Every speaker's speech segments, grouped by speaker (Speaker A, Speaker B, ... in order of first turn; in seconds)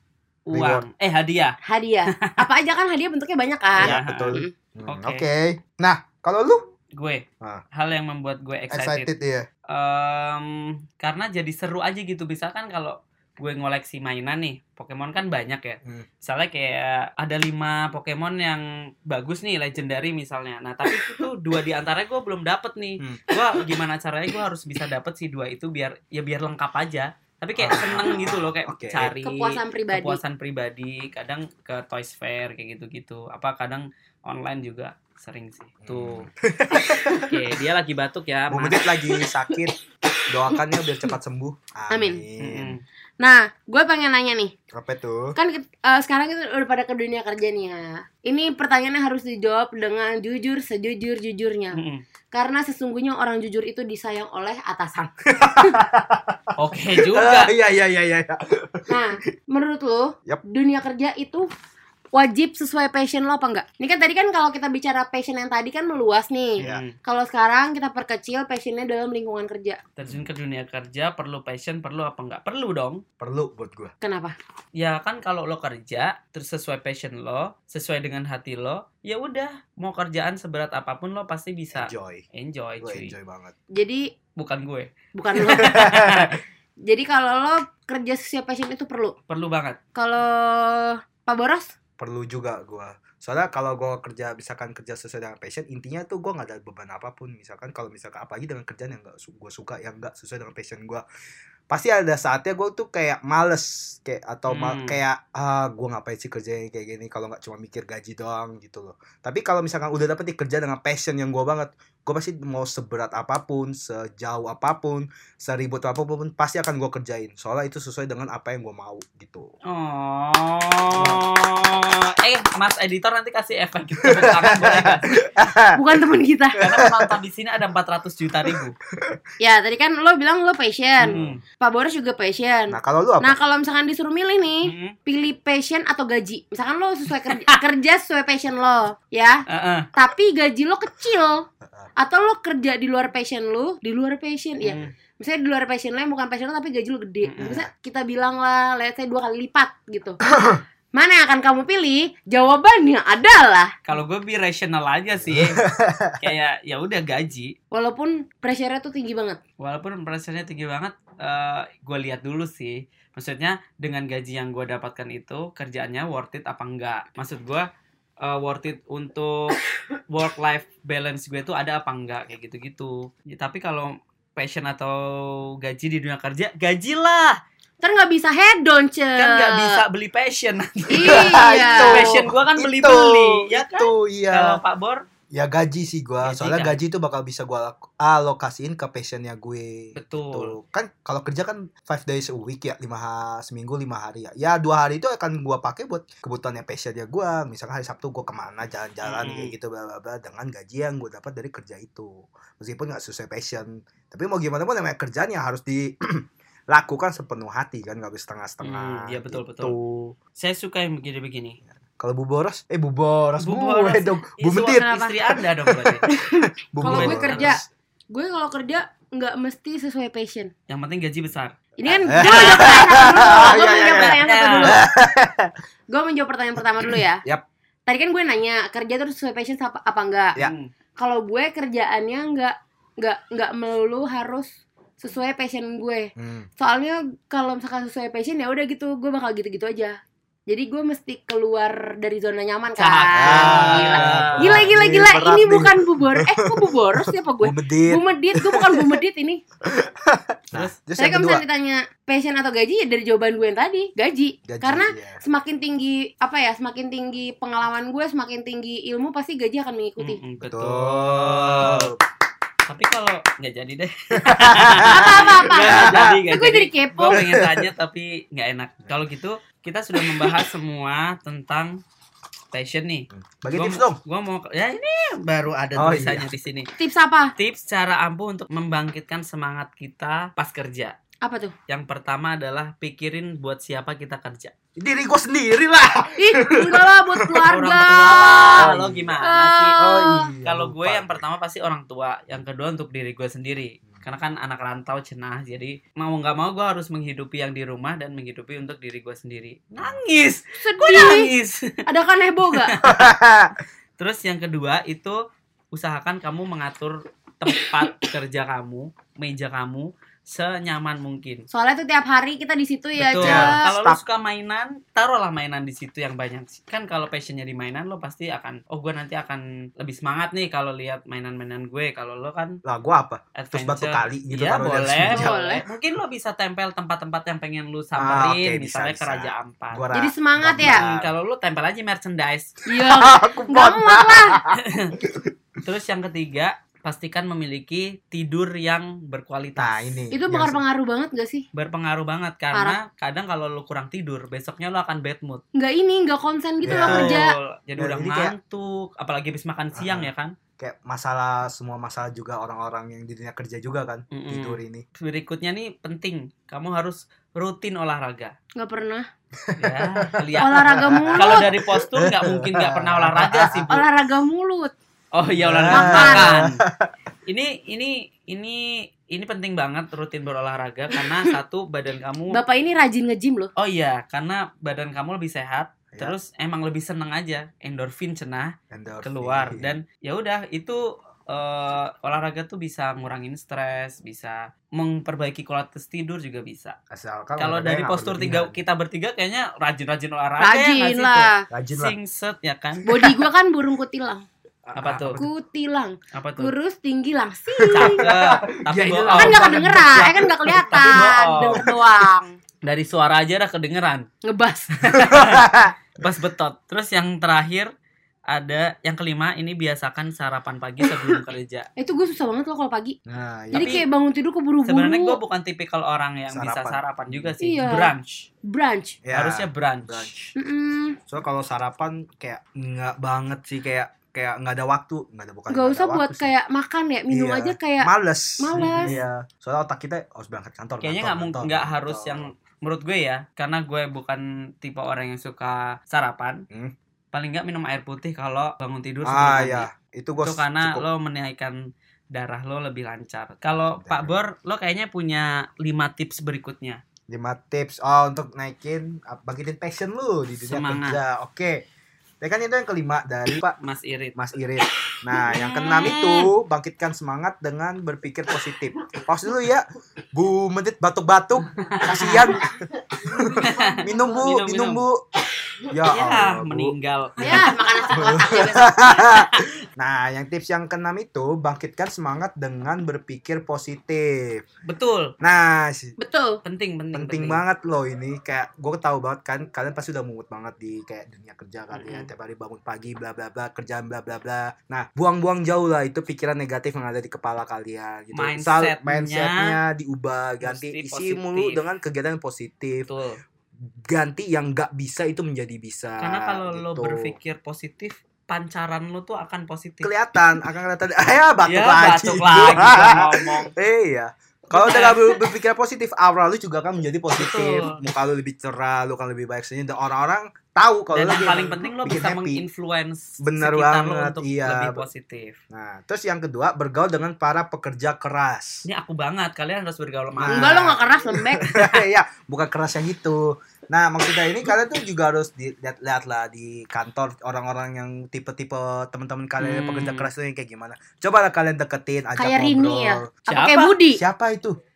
Speaker A: 0.5-1.6, 2.1-2.4, 3.8-5.2, 6.9-9.1, 9.7-36.3, 37.2-38.8, 42.4-42.8, 51.7-52.0, 56.6-57.5, 66.6-66.9, 70.0-73.0, 74.8-83.1, 84.3-86.4, 89.3-89.8, 104.5-105.0, 119.7-125.1, 126.6-128.8, 131.0-131.4, 134.6-134.9, 137.2-137.5, 139.5-139.9, 144.6-144.9, 147.2-147.6, 153.8-155.6, 156.2-157.5, 159.6-167.7, 168.2-169.6, 170.1-177.4, 179.2-185.0, 186.2-186.8, 189.9-190.5, 199.0-199.5, 208.6-209.8, 210.4-211.6, 213.4-216.0, 216.8-217.6, 220.7-221.6, 222.2-223.3, 223.9-224.8, 230.4-230.7, 242.8-244.7, 260.0-261.9, 262.7-271.8, 272.5-276.7, 277.4-280.9, 281.7-284.5, 287.5-289.8, 290.4-301.8, 302.5-303.1, 304.0-305.2, 305.7-311.4, 313.0-322.6, 323.4-329.8, 330.6-332.6, 334.5-334.9, 335.6-340.0, 341.5-345.4, 346.7-350.3, 354.1-358.3, 359.6-363.8, 365.1-366.6, 367.3-372.4, 373.6-386.8, 387.4-392.9, 394.8-395.2, 396.1-396.5, 397.7-400.1, 400.7-401.7, 402.6-404.1, 404.8-407.7, 408.3-411.7, 413.5-413.8, 414.6-418.3, 419.1-420.1, 428.5-429.0, 430.8-436.4, 437.1-439.7, 440.2-446.8, 450.4-451.0, 453.6-454.1, 455.3-456.3, 461.6-462.3, 463.3-464.8, 465.9-467.5, 469.1-469.5, 474.7-475.1, 476.4-477.4, 481.7-482.1, 488.1-489.6, 490.4-491.6, 492.9-493.2, 496.0-499.9, 501.4-503.5, 504.5-505.2, 507.1-507.8, 510.9-515.4, 518.6-520.8, 521.4-521.8, 529.4-530.1, 533.3-533.8
Speaker B: 0.5-0.8, 3.8-6.7, 8.7-9.5, 23.0-23.4, 27.6-29.1, 35.8-37.4, 38.5-39.7, 40.3-42.7, 44.7-45.4, 55.3-59.0, 73.2-73.9, 81.7-82.2, 82.8-83.5, 85.6-86.3, 92.0-101.0, 101.7-119.5, 120.9-121.2, 124.0-125.8, 126.6-127.1, 128.5-129.2, 131.1-131.4, 132.7-133.4, 141.6-141.9, 147.4-147.7, 155.2-156.2, 181.0-184.6, 185.3-210.2, 212.0-216.1, 216.7-217.7, 221.8-225.5, 226.8-227.4, 236.2-236.5, 243.2-249.0, 249.6-251.4, 254.5-255.2, 260.4-262.0, 264.2-266.2, 267.1-267.7, 270.0-270.4, 273.1-274.0, 275.7-276.3, 284.8-289.2, 289.8-291.2, 302.8-303.5, 313.1-314.0, 322.6-325.3, 328.0-331.1, 332.7-335.3, 339.6-340.6, 346.6-347.2, 347.8-348.3, 349.7-354.8, 359.4-363.7, 365.3-366.9, 378.7-379.8, 386.9-388.6, 391.5-391.9, 394.6-395.3, 397.6-401.7, 404.9-405.7, 413.1-413.8, 416.3-417.3, 419.0-420.3, 421.1-426.3, 427.1-432.3, 439.0-440.8, 443.7-444.2, 447.1-451.6, 452.2-453.5, 454.1-465.0, 465.7-474.4, 475.2-475.9, 476.9-492.9, 493.9-497.1, 499.8-512.4, 513.2-514.8, 515.5-518.6, 520.1-533.1, 533.9-534.6
Speaker C: 1.6-4.5, 29.2-30.2, 36.8-37.2, 41.9-42.2, 43.2-44.5, 45.4-51.8, 52.3-55.8, 58.9-61.5, 62.1-69.8, 74.0-74.3, 83.7-84.1, 85.1-86.0, 86.9-89.2, 90.0-91.7, 125.7-126.7, 129.4-139.4, 139.9-141.4, 142.0-150.2, 150.9-153.7, 157.7-159.4, 177.8-179.8, 180.9-182.2, 214.7-215.1, 216.1-220.5, 221.8-224.8, 225.9-227.2, 227.9-230.4, 231.0-240.0, 240.5-249.4, 251.0-260.2, 264.8-267.2, 276.8-277.3, 281.2-281.5, 286.2-290.3, 300.6-301.3, 301.9-302.8, 311.5-313.6, 325.1-325.6, 329.9-330.8, 332.7-334.4, 340.1-341.4, 342.5-342.8, 345.5-347.3, 358.6-359.1, 360.4-361.5, 363.7-364.7, 365.7-366.4, 372.3-373.5, 390.4-391.4, 392.8-394.2, 395.2-398.0, 399.1-402.4, 404.2-404.8, 411.8-412.9, 413.5-415.2, 417.4-417.9, 418.4-419.0, 420.3-421.0, 425.5-428.9, 463.2-463.8, 467.2-469.1, 476.0-476.4, 520.3-521.5, 532.2-534.0